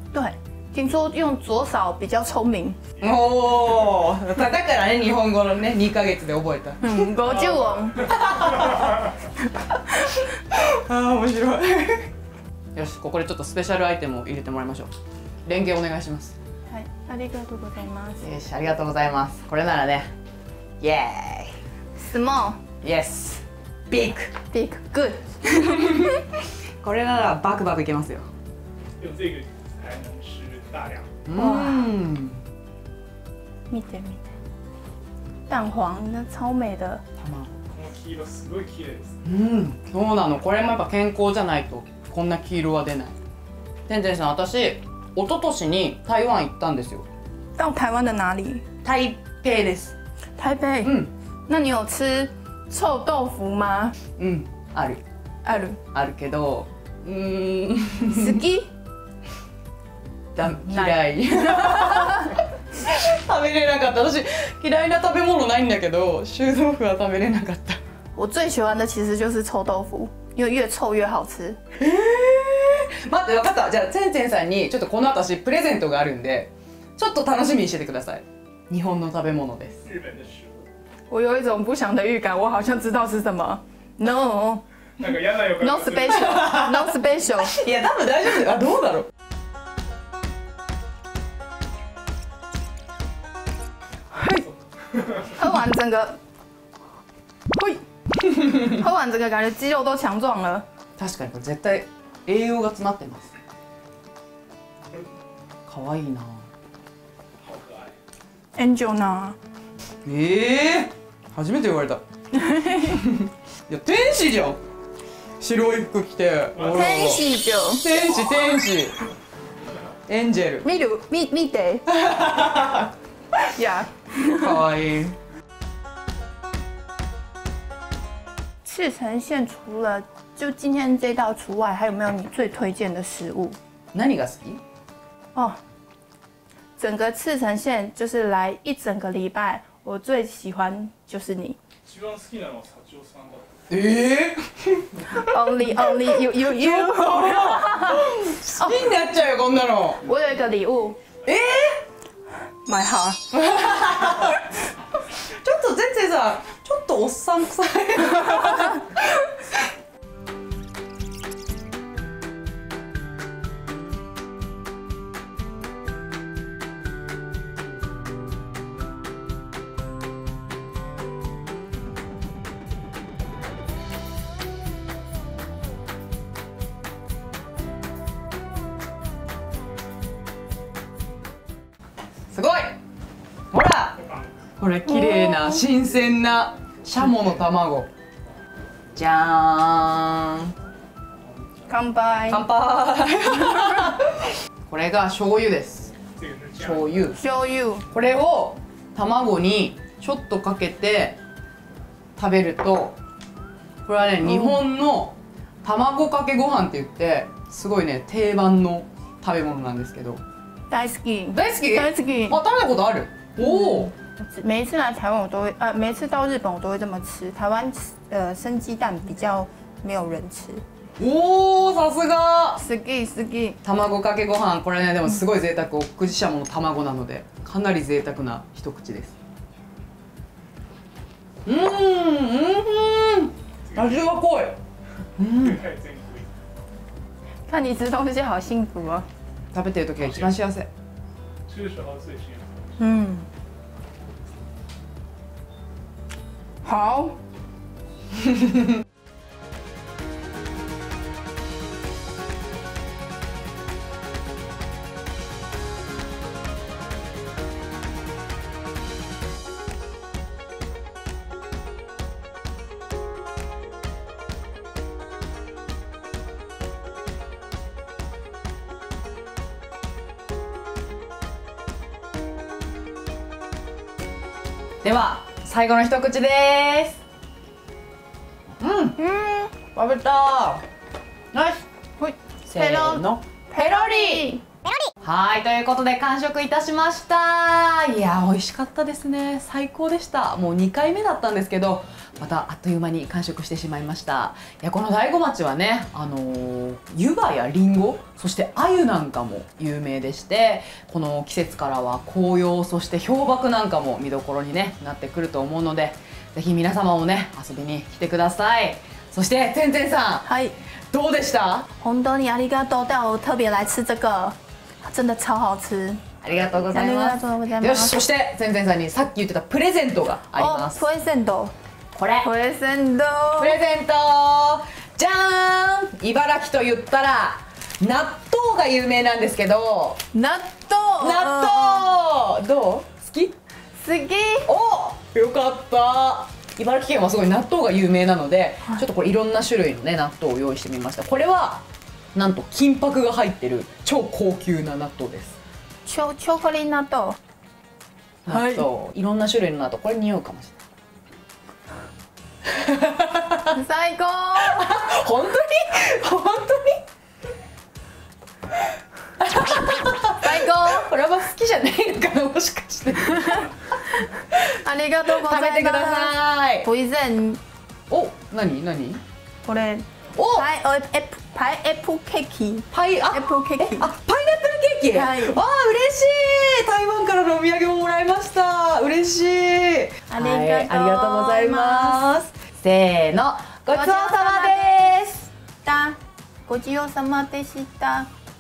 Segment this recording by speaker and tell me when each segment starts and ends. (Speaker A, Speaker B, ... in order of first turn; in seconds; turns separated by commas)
Speaker A: 0.1-2.8, Speaker B: 3.0-7.1, Speaker A: 6.8-8.2, Speaker B: 8.0-9.1, Speaker B: 9.9-12.1, Speaker B: 12.8-14.9, Speaker B: 15.5-16.4, Speaker A: 16.7-18.3, Speaker B: 18.2-20.1, Speaker B: 20.8-21.5, Speaker A: 22.0-22.6, Speaker B: 22.8-24.4, Speaker A: 24.5-26.2, Speaker B: 25.6-26.1, Speaker B: 26.8-28.3, Speaker C: 29.0-31.1, Speaker B: 31.3-32.4, Speaker A: 31.3-31.9, Speaker A: 33.7-34.3, Speaker A: 35.5-37.0, Speaker B: 37.2-37.6, Speaker C: 37.7-39.2, Speaker B: 39.2-43.1, Speaker B: 43.9-47.1, Speaker A: 47.6-48.6, Speaker B: 48.8-50.0, Speaker A: 50.4-54.0, Speaker B: 50.8-51.1, Speaker B: 54.2-55.0, Speaker A: 55.5-55.8, Speaker B: 55.8-58.4, Speaker A: 58.1-58.7, Speaker B: 60.4-67.8, Speaker A: 60.6-62.3, Speaker A: 68.2-71.6, Speaker B: 71.8-79.8, Speaker C: 79.9-80.7, Speaker A: 81.1-87.6, Speaker C: 85.0-86.4, Speaker B: 86.2-89.1, Speaker A: 94.1-94.5, Speaker A: 95.2-96.2, Speaker A: 97.5-97.8, Speaker A: 98.6-100.7, Speaker B: 101.0-103.3, Speaker B: 105.7-106.5, Speaker C: 107.4-108.0, Speaker A: 108.6-109.4, Speaker B: 110.0-112.0, Speaker A: 112.3-113.0, Speaker B: 112.7-114.6, Speaker B: 115.4-117.2, Speaker C: 116.6-117.0, Speaker A: 116.7-117.9, Speaker B: 117.8-119.0, Speaker B: 120.1-120.7, Speaker A: 120.6-121.8, Speaker B: 121.9-122.9, Speaker A: 123.5-124.7, Speaker B: 124.3-125.2, Speaker A: 128.6-133.6, Speaker B: 133.9-134.6, Speaker A: 135.3-135.6, Speaker A: 136.8-141.6, Speaker C: 141.8-143.5, Speaker B: 143.7-145.3, Speaker A: 145.2-149.0, Speaker B: 146.2-150.0, Speaker A: 150.0-151.0, Speaker B: 151.2-151.8, Speaker A: 152.7-153.2, Speaker B: 153.3-154.4, Speaker B: 155.3-159.2, Speaker B: 182.3-182.8, Speaker B: 183.5-184.0, Speaker B: 184.6-187.9, Speaker A: 185.0-185.5, Speaker B: 188.9-190.5, Speaker A: 191.7-192.4, Speaker B: 192.3-195.9, Speaker C: 196.2-197.0, Speaker B: 196.6-197.2, Speaker A: 197.1-197.9, Speaker B: 197.9-201.2, Speaker B: 202.2-203.0, Speaker B: 203.8-210.2, Speaker A: 204.2-204.7, Speaker A: 210.7-212.4, Speaker B: 211.3-213.9, Speaker A: 213.4-220.6, Speaker B: 221.0-222.6, Speaker A: 222.6-223.6, Speaker B: 223.6-229.1, Speaker B: 231.5-234.6, Speaker C: 233.7-234.1, Speaker B: 235.2-235.6, Speaker C: 235.4-236.3, Speaker A: 237.5-239.1, Speaker B: 239.5-240.7, Speaker C: 240.0-240.3, Speaker C: 241.5-242.7, Speaker A: 242.8-243.3, Speaker A: 246.6-247.2, Speaker B: 274.8-277.0, Speaker B: 278.6-279.0, Speaker A: 279.0-279.6, Speaker B: 279.7-280.6, Speaker B: 281.3-281.6, Speaker A: 282.0-284.4, Speaker B: 282.5-284.3, Speaker B: 285.0-310.3, Speaker A: 310.2-310.6, Speaker B: 310.9-311.7, Speaker A: 311.8-318.1, Speaker B: 316.2-320.9, Speaker A: 320.3-321.5, Speaker B: 321.9-322.3, Speaker A: 322.2-323.6, Speaker B: 323.4-330.0, Speaker A: 330.1-331.9, Speaker B: 331.0-333.4, Speaker A: 333.8-334.5, Speaker B: 334.5-345.4, Speaker A: 345.9-347.2, Speaker B: 348.3-350.6, Speaker A: 348.3-348.7, Speaker B: 352.5-353.6, Speaker A: 353.5-354.8, Speaker B: 354.4-356.8, Speaker B: 359.2-364.6, Speaker A: 360.2-360.9, Speaker A: 364.4-367.4, Speaker B: 365.1-366.7, Speaker B: 367.9-369.0, Speaker A: 369.4-373.9, Speaker B: 370.1-370.5, Speaker B: 372.7-385.3, Speaker A: 374.9-375.4, Speaker A: 380.1-382.1, Speaker A: 383.7-384.8, Speaker A: 385.6-388.1